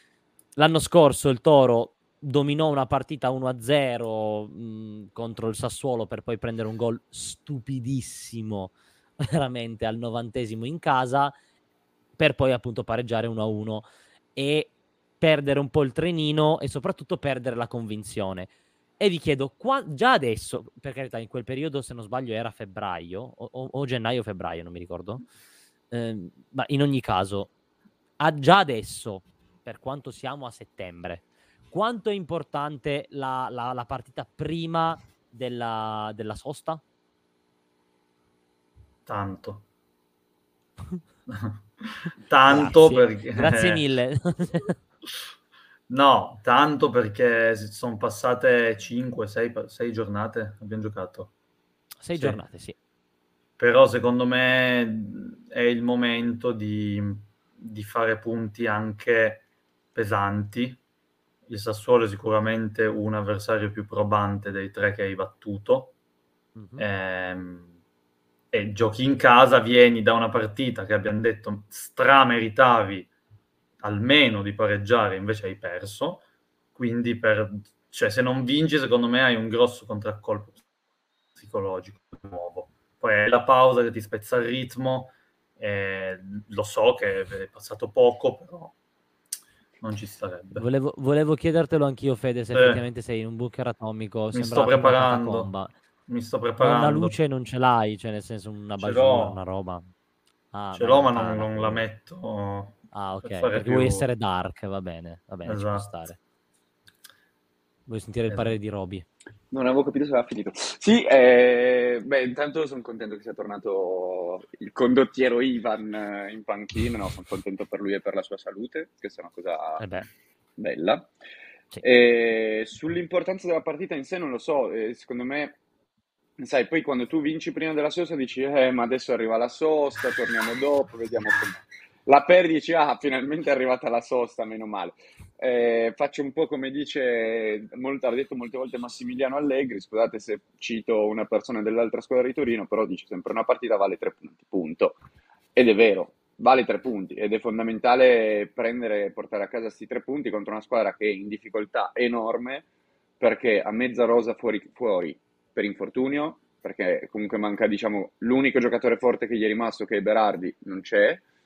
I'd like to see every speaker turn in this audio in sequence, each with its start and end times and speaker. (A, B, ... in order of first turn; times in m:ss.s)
0:00.6-0:11.3 A
0:12.2-0:25.2 A
0:25.9-0:27.5 A
0:28.2-0:36.8 A
0:39.1-0:39.6 B
0:41.3-0:43.8 B
0:42.5-0:44.8 A
0:45.9-0:51.3 B
0:52.0-0:52.8 A
0:53.6-1:00.8 B
1:01.5-1:05.9 B
1:06.6-1:06.8 A
1:06.8-1:07.7 B
1:08.5-1:13.1 B
1:13.8-1:16.2 B
1:16.8-1:20.6 B
1:21.4-1:28.7 B
1:29.8-1:30.6 B
1:30.6-1:35.7 A
1:32.5-1:32.8 B
1:34.3-1:35.5 B
1:36.1-1:37.2 B
1:36.6-1:39.9 A
1:38.8-1:39.4 B
1:40.5-1:41.8 A
1:40.7-1:44.1 B
1:42.9-1:46.2 A
1:45.5-1:45.9 B
1:47.9-1:49.0 A
1:49.5-1:59.8 C
1:59.8-2:00.1 A
2:00.6-2:01.1 C
2:01.8-2:05.6 C
2:06.4-2:25.0 C
2:25.6-2:32.7 C
2:33.2-2:41.2 C